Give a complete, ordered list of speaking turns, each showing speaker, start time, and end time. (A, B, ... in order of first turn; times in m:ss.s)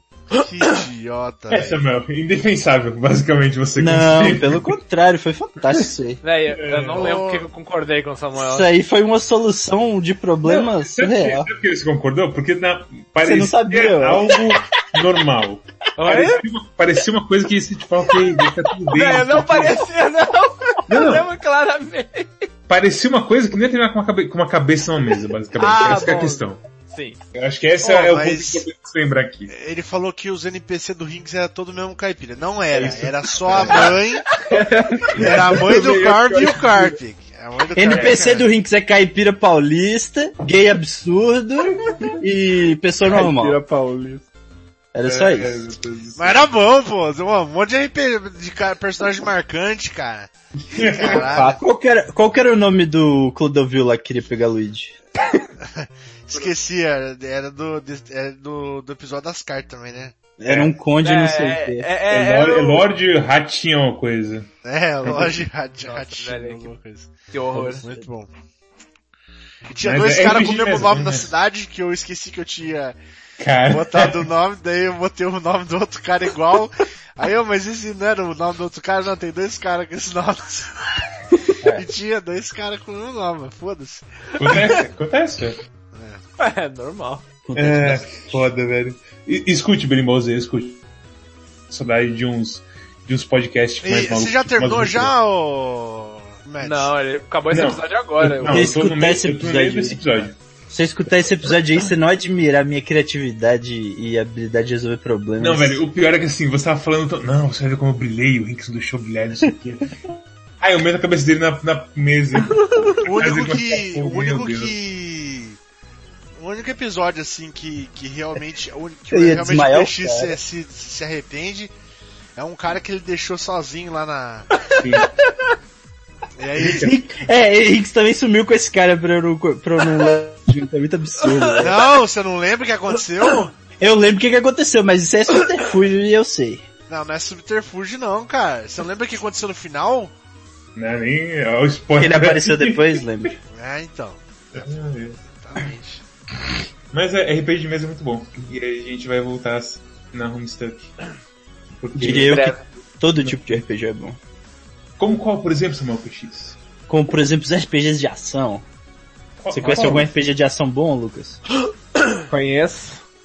0:00.3-0:01.8 A
0:01.5-0:04.7 B
0:03.8-0:06.2 C
0:06.2-0:08.7 D
0:06.5-0:07.1 B
0:06.9-0:07.4 A
0:08.4-0:11.5 C
0:10.4-0:19.8 B
0:13.2-0:14.4 C
0:16.0-0:16.4 D
0:18.9-0:22.5 D
0:20.9-0:21.3 B
0:22.7-0:26.6 B
0:25.6-0:27.2 D
0:27.3-0:29.5 B
0:27.8-0:28.6 A
0:29.5-0:34.3 A
0:32.7-0:34.0 B
0:34.4-0:37.0 E
0:35.1-0:35.7 B
0:35.2-0:38.4 A
0:37.7-0:43.6 C
0:37.8-0:38.4 B
0:43.0-0:44.2 E
0:44.9-0:45.6 C
0:45.0-0:46.5 B
0:46.2-0:51.6 A
0:50.7-0:51.4 B
0:51.0-0:55.0 C
0:55.6-1:00.1 A
1:00.4-1:01.9 C
1:00.4-1:00.7 B
1:01.0-1:02.9 D
1:02.1-1:04.5 B
1:04.6-1:08.3 A
1:05.0-1:05.3 B
1:05.8-1:06.7 D
1:07.3-1:07.8 D
1:09.7-1:13.0 A
1:09.8-1:11.3 B
1:13.4-1:14.3 B
1:13.7-1:20.8 A
1:21.7-1:24.0 A
1:24.4-1:25.6 B
1:25.9-1:26.2 A
1:26.4-1:27.2 D
1:27.5-1:28.4 C
1:27.6-1:30.8 B
1:31.7-1:35.1 B
1:33.8-1:36.9 A
1:36.6-1:38.7 D
1:37.5-1:40.4 B
1:38.5-1:40.0 C
1:40.7-1:45.8 C
1:45.4-1:54.8 B
1:53.0-1:55.6 A
1:56.4-2:01.7 A
1:59.1-2:00.4 C
2:02.4-2:04.5 A
2:04.7-2:05.1 B
2:06.4-2:06.8 A
2:06.6-2:07.0 B
2:06.7-2:11.9 C
2:11.2-2:11.7 D
2:11.6-2:13.5 A
2:13.8-2:16.6 C
2:16.9-2:20.1 A
2:20.8-2:23.0 B
2:22.0-2:23.4 C
2:23.5-2:24.2 A
2:24.5-2:25.2 B
2:25.3-2:26.0 A
2:26.9-2:30.9 B
2:31.8-2:32.5 B
2:32.0-2:34.2 C
2:32.0-2:32.6 D
2:33.2-2:33.6 B
2:35.0-2:36.6 B
2:36.9-2:38.6 C
2:39.4-2:40.1 B
2:39.5-2:41.4 C
2:39.6-2:40.1 E
2:42.3-2:43.0 E